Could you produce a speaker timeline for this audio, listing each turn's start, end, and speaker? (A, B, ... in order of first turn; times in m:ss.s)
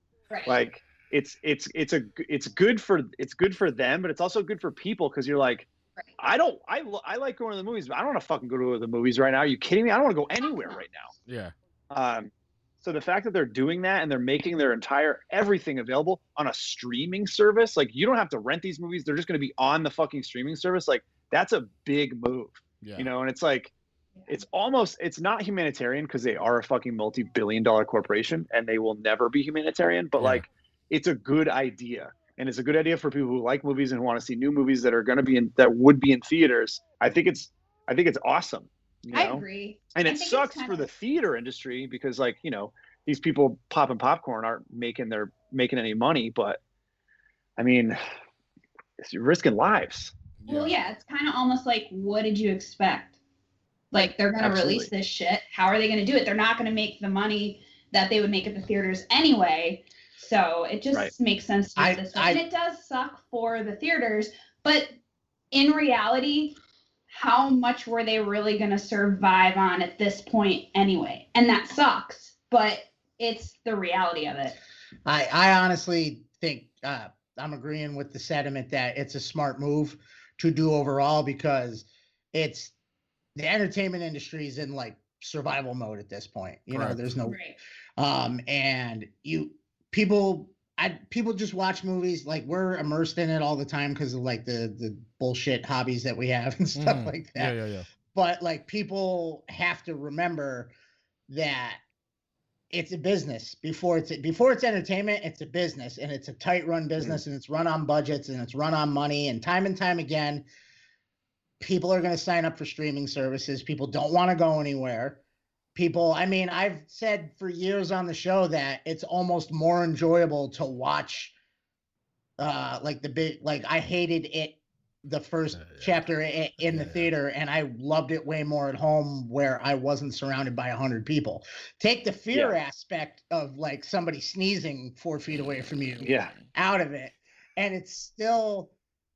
0:00.3-0:00.6 A
0:00.5-0:05.7 B
0:06.2-0:11.1 B
0:11.2-0:11.5 C
0:11.9-0:23.7 B
0:22.8-0:23.1 C
0:24.2-0:24.4 A
0:24.3-0:46.6 B
0:30.2-0:30.4 C
0:39.1-0:40.8 A
0:47.6-0:48.0 B
0:49.0-0:50.1 B
0:50.4-0:50.8 C
0:50.5-0:53.1 A
0:53.9-1:04.9 A
0:54.4-0:54.9 B
1:01.8-1:02.4 D
1:05.5-1:06.6 A
1:07.1-1:14.6 A
1:15.0-1:22.7 D
1:23.4-1:27.4 D
1:26.7-1:27.0 C
1:27.2-1:27.6 A
1:28.0-1:37.6 D
1:36.8-1:37.9 C
1:38.1-1:40.7 D
1:41.3-1:41.8 D
1:42.7-1:50.4 D
1:51.6-1:55.2 D
1:55.7-2:01.3 D
2:02.4-2:18.7 D
2:05.5-2:06.0 C
2:06.6-2:07.1 C
2:16.0-2:16.3 B